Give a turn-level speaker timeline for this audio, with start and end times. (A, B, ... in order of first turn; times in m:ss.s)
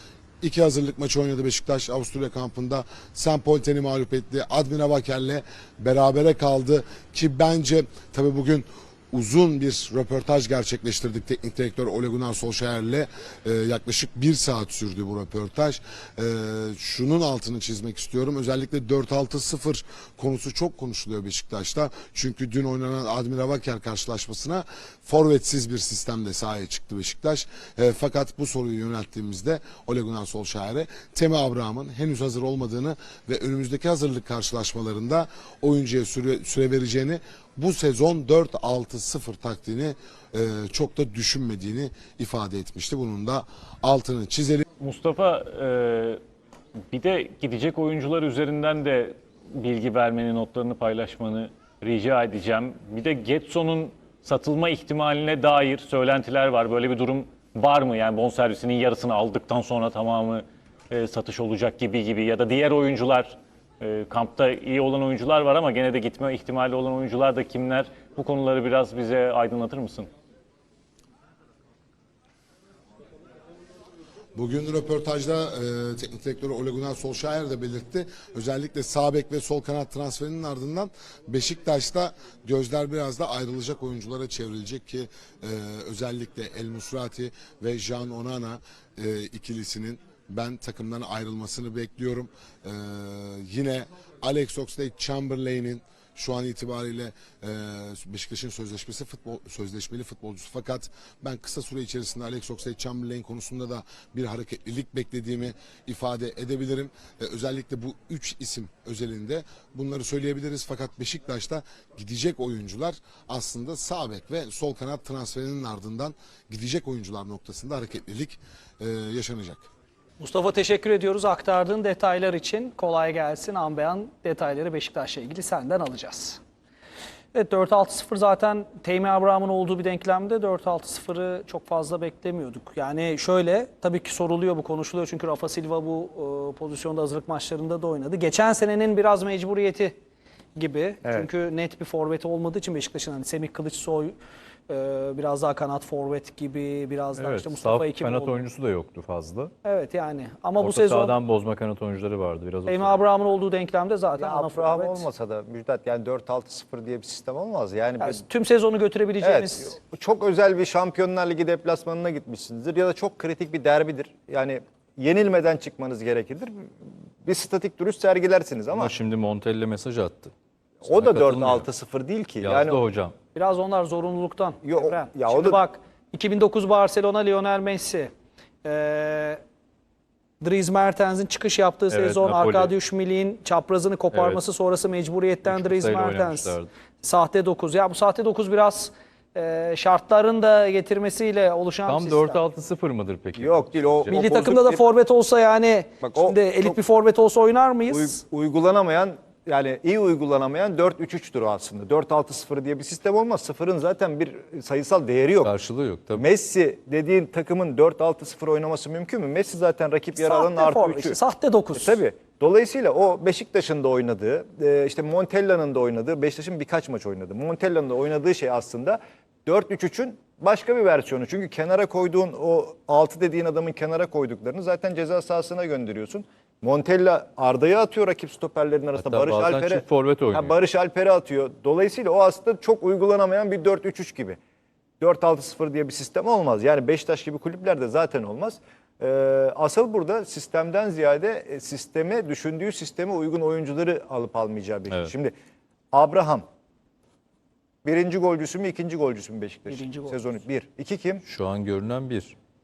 0:00.4-0:44.6 A
0:44.8-0:46.2 B
0:46.9-1:10.1 B
1:14.4-1:59.7 A
2:00.2-2:06.4 C
2:07.3-2:20.0 C
2:20.6-2:24.2 C
2:24.7-2:28.4 C
2:27.2-2:29.5 D
2:29.6-2:31.2 C
2:30.6-2:33.0 D
2:32.7-2:35.1 C
2:34.2-2:38.2 E
2:38.0-2:39.8 C
2:39.2-2:46.7 E
2:47.2-2:48.9 E
2:48.7-2:50.3 D
2:50.8-2:52.8 E
2:50.8-2:51.7 D
2:52.4-2:53.1 D
2:53.4-2:58.1 C
2:54.6-2:55.6 E
2:58.6-2:59.4 C
3:00.4-3:12.4 C
3:01.9-3:02.7 D
3:04.1-3:04.4 D
3:05.5-3:06.7 D
3:11.9-3:14.1 D
3:13.4-3:14.8 E
3:14.1-3:18.2 C
3:16.0-3:16.8 E
3:17.9-3:25.5 E
3:25.4-3:26.2 D
3:26.2-3:31.2 E
3:30.2-3:32.0 C
3:31.8-3:54.4 E
3:49.0-3:50.6 D
3:55.0-4:05.3 E
4:05.9-4:06.5 E
4:07.8-4:11.2 E
4:09.7-4:10.2 C
4:11.2-4:12.4 D